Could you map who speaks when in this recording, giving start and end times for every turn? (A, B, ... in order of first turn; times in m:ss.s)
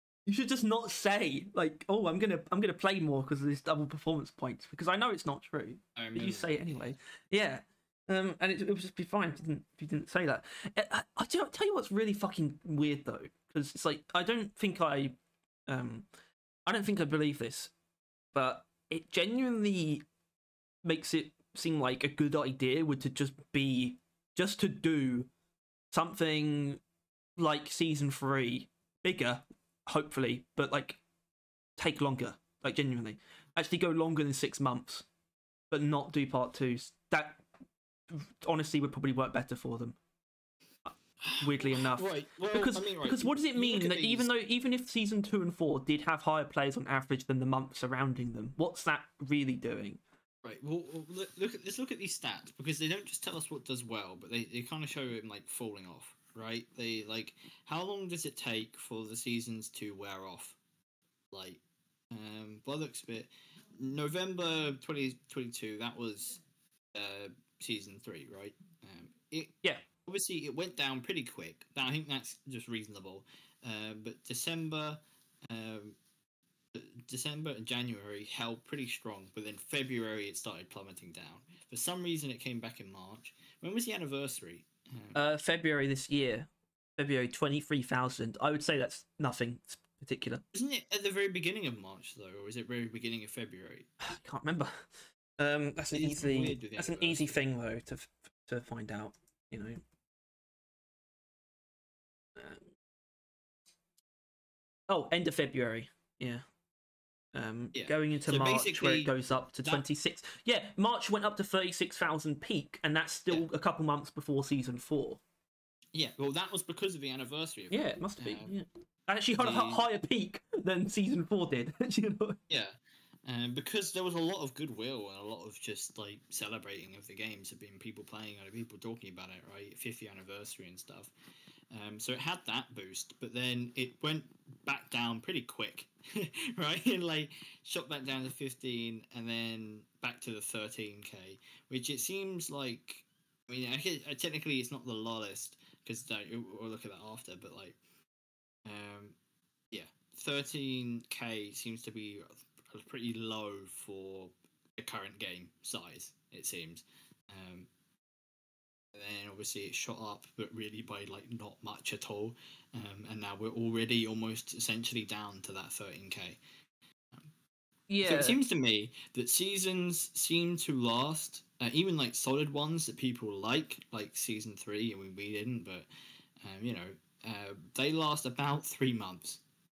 0:00.2-0:15.1 A
0:06.0-0:06.9 B
0:15.7-0:16.0 A
0:16.6-0:17.7 A
0:18.3-0:20.0 A
0:20.8-0:25.3 A
0:25.9-0:26.8 A
0:27.4-0:31.0 A
0:31.8-0:35.1 A
0:35.7-0:37.4 A
0:38.1-0:40.0 A
0:40.8-0:50.0 A
0:41.2-0:44.3 B
0:50.4-1:00.6 B
1:01.3-1:06.4 B
1:06.9-1:16.0 B
1:16.7-1:25.2 B
1:25.1-1:30.4 A
1:30.5-1:33.9 B
1:34.0-1:39.8 A
1:35.9-1:37.4 B
1:42.4-1:42.6 A
1:44.9-1:46.4 A
1:47.3-1:55.2 A
1:47.7-1:49.8 B
1:55.9-1:58.5 B
1:57.7-2:02.4 A
1:59.4-1:59.8 B
2:02.5-2:11.1 B
2:11.7-2:27.8 B
2:28.6-2:29.2 B
2:29.7-2:37.7 B
2:38.9-2:46.4 B
2:47.9-2:48.4 A
2:48.0-2:59.4 B